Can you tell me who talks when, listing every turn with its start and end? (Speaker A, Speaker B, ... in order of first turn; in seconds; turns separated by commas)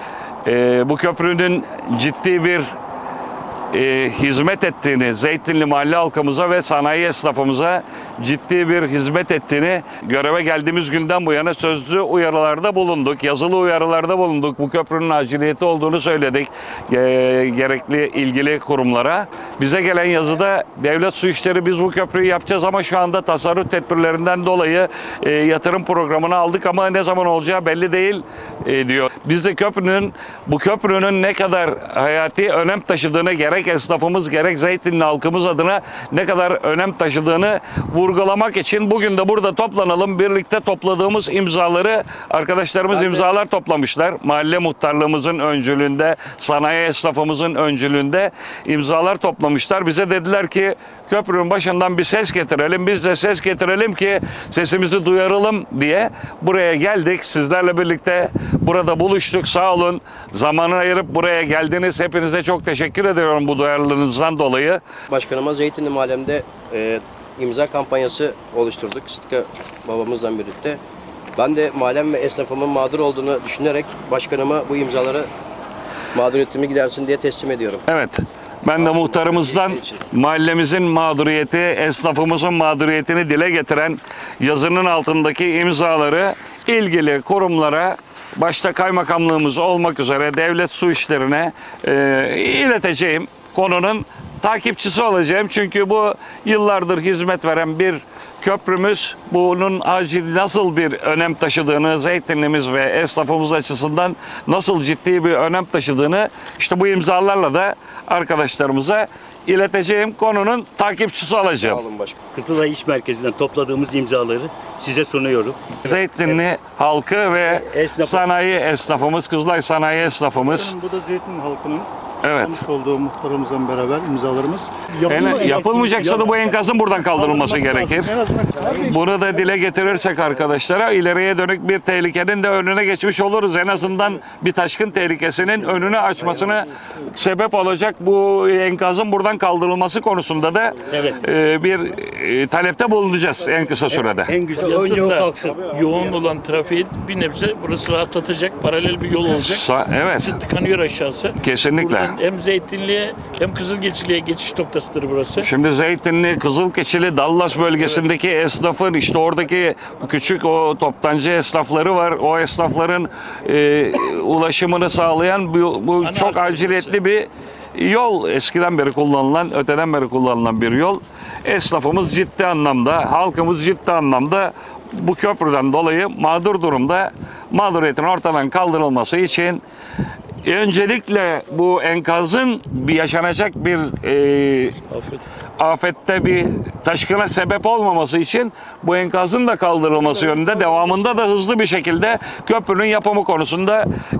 Speaker A: 0.5-2.7, Speaker A: 3.7-64.8, Speaker B: 65.1-70.8, Speaker B: 71.4-75.3, Speaker B: 76.1-77.8, Speaker A: 77.9-111.8, Speaker B: 78.8-80.0, Speaker B: 111.6-112.2, Speaker C: 112.3-116.4, Speaker A: 115.8-120.8, Speaker C: 117.5-118.3, Speaker D: 120.5-121.9, Speaker A: 122.2-122.6, Speaker D: 122.4-126.3, Speaker A: 125.0-128.1, Speaker C: 125.3-125.6, Speaker D: 127.0-129.1, Speaker A: 128.7-144.4, Speaker C: 140.9-141.2, Speaker C: 143.9-145.7, Speaker E: 144.6-155.5, Speaker A: 149.3-150.4, Speaker A: 151.4-152.2, Speaker A: 155.4-179.6, Speaker E: 166.0-167.0, Speaker A: 180.4-184.8, Speaker E: 184.9-185.2, Speaker A: 185.6-193.9